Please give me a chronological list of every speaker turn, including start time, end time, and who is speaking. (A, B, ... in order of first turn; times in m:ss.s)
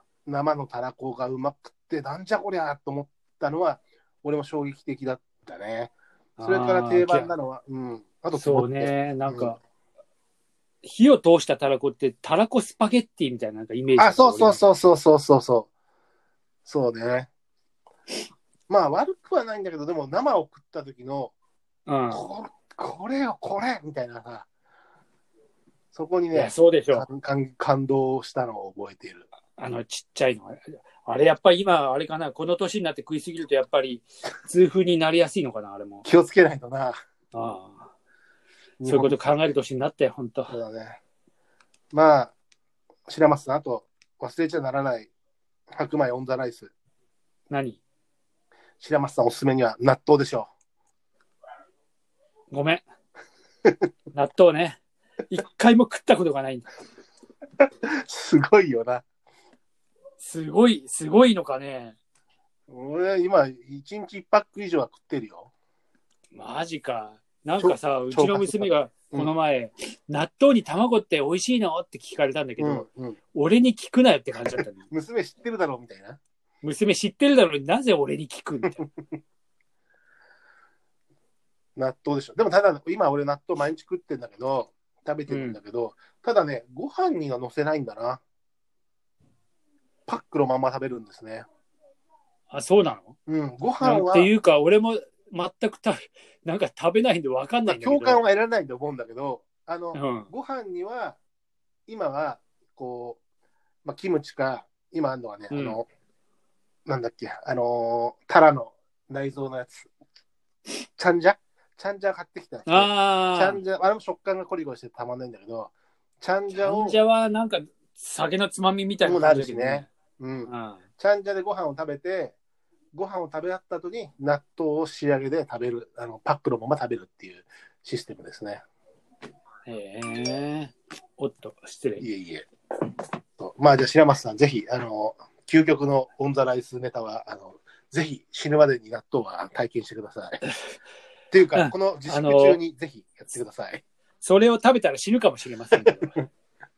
0:00.3-0:09.6 A
0:06.4-0:07.3 B
0:08.3-0:09.6 B
0:10.8-0:14.6 B
0:14.0-0:15.7 A
0:16.6-0:17.3 A
0:18.7-0:21.3 A
0:21.9-0:22.2 B
0:22.1-0:24.5 A
0:25.9-0:29.3 A
0:26.3-0:27.0 B
0:29.6-0:36.0 B
0:36.0-0:37.0 A
0:37.3-0:37.9 B
0:38.8-0:40.5 B
0:38.8-0:39.2 A
0:40.5-0:41.0 A
0:41.9-0:42.3 A
0:43.1-0:45.1 A
0:45.7-0:46.7 A
0:47.5-0:47.8 B
0:48.8-0:50.5 A
0:52.5-0:52.8 B
0:54.1-0:56.7 B
0:58.0-0:59.0 A
1:00.2-1:02.0 B
1:02.7-1:05.5 A
1:06.3-1:14.8 B
1:07.6-1:09.3 A
1:12.6-1:13.2 A
1:14.4-1:16.2 A
1:16.6-1:18.8 B
1:21.8-1:28.2 A
1:25.3-1:25.6 B
1:30.1-1:31.4 A
1:32.5-1:33.1 B
1:33.3-1:34.3 A
1:33.8-1:38.2 B
1:37.6-1:41.2 A
1:39.9-1:40.3 B
1:41.9-1:43.2 A
1:43.8-1:45.8 A
1:45.5-1:45.8 B
1:46.8-1:49.9 A
1:51.0-1:57.0 A
1:52.7-1:53.6 B
1:56.5-1:59.9 B
1:59.0-2:02.3 A
2:00.5-2:00.8 B
2:02.9-2:08.6 A
2:09.7-2:12.0 B
2:12.0-2:12.5 A
2:13.4-2:20.4 A
2:21.3-2:23.8 A
2:21.5-2:22.6 B
2:24.2-2:26.1 B
2:25.7-2:26.2 A